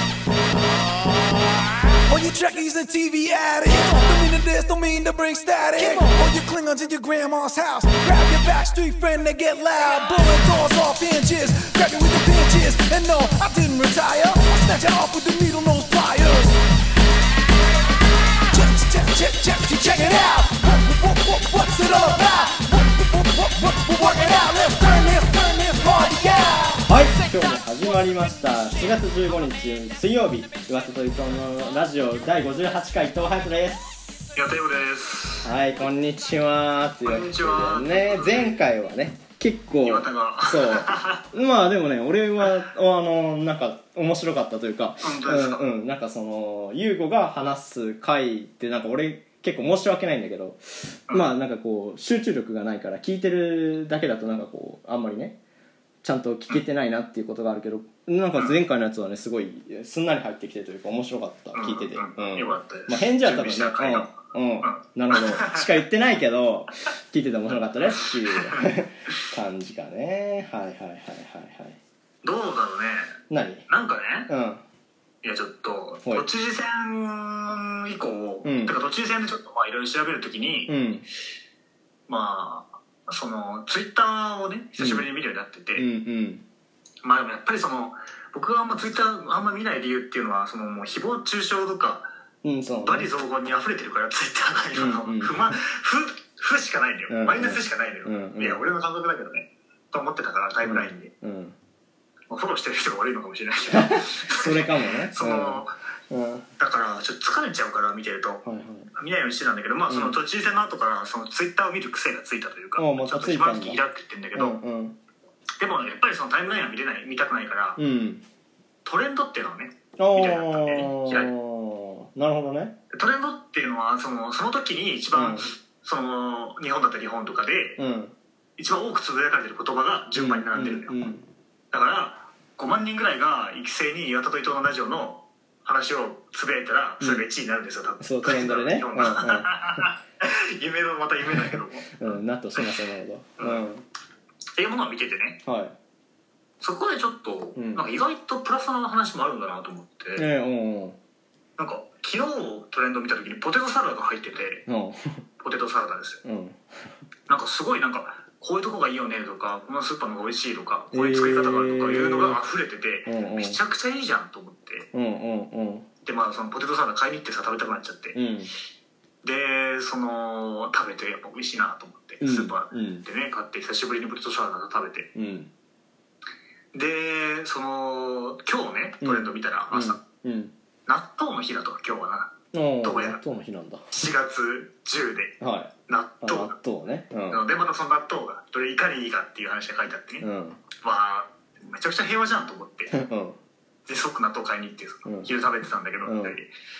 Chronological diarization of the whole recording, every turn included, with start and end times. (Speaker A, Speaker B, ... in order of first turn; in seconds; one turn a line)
Speaker A: 0.7-16.6
Speaker A: 18.5-26.8
Speaker B: 26.8-34.3
Speaker C: 34.3-35.5
Speaker B: 35.4-55.4
Speaker C: 37.0-38.6
Speaker C: 39.8-41.2
Speaker C: 45.0-45.6
Speaker B: 56.0-71.8
Speaker C: 61.5-65.7
Speaker C: 67.9-68.6
Speaker C: 72.2-74.3
Speaker B: 73.3-73.7
Speaker B: 74.3-74.6
Speaker C: 75.2-80.7
Speaker B: 78.4-78.8
Speaker B: 80.7-81.0
Speaker C: 82.1-85.9
Speaker B: 84.8-85.0
Speaker B: 85.7-86.4
Speaker C: 87.0-92.1
Speaker B: 92.4-93.1
Speaker C: 92.8-101.1
Speaker B: 94.7-95.6
Speaker B: 97.1-98.6
Speaker B: 100.6-101.5
Speaker C: 102.3-105.7
Speaker B: 103.7-106.5
Speaker C: 106.6-114.6
Speaker B: 108.4-108.9
Speaker B: 109.9-110.2
Speaker B: 112.8-113.8
Speaker B: 114.3-115.0
Speaker C: 115.6-117.8
Speaker B: 117.8-118.2
Speaker C: 118.8-121.3
Speaker B: 120.0-122.8
Speaker C: 122.9-127.8
Speaker B: 125.1-125.5
Speaker B: 127.8-128.1
Speaker C: 128.6-130.9
Speaker B: 130.1-131.2
Speaker C: 131.7-142.2
Speaker B: 138.0-139.9
Speaker B: 141.3-143.8
Speaker C: 143.4-143.7
Speaker C: 144.6-145.4
Speaker B: 145.4-145.7
Speaker C: 146.6-150.2
Speaker B: 147.6-147.9
Speaker B: 150.2-151.0
Speaker C: 151.6-154.7
Speaker B: 154.7-155.2
Speaker C: 155.4-156.2
Speaker B: 156.2-156.6
Speaker C: 157.3-164.9
Speaker B: 160.9-162.4
Speaker B: 163.1-163.6
Speaker B: 164.9-165.9
Speaker C: 166.0-168.2
Speaker B: 168.1-168.5
Speaker C: 169.2-175.1
Speaker B: 172.2-173.1
Speaker B: 175.1-175.5
Speaker C: 176.7-180.0
Speaker B: 179.0-180.5
Speaker C: 180.9-183.2
Speaker B: 182.5-183.8
Speaker C: 183.9-186.5
Speaker B: 185.4-187.4
Speaker C: 187.3-192.9
Speaker B: 190.2-190.6
Speaker B: 192.9-193.4
Speaker C: 193.8-196.5
Speaker B: 196.0-196.4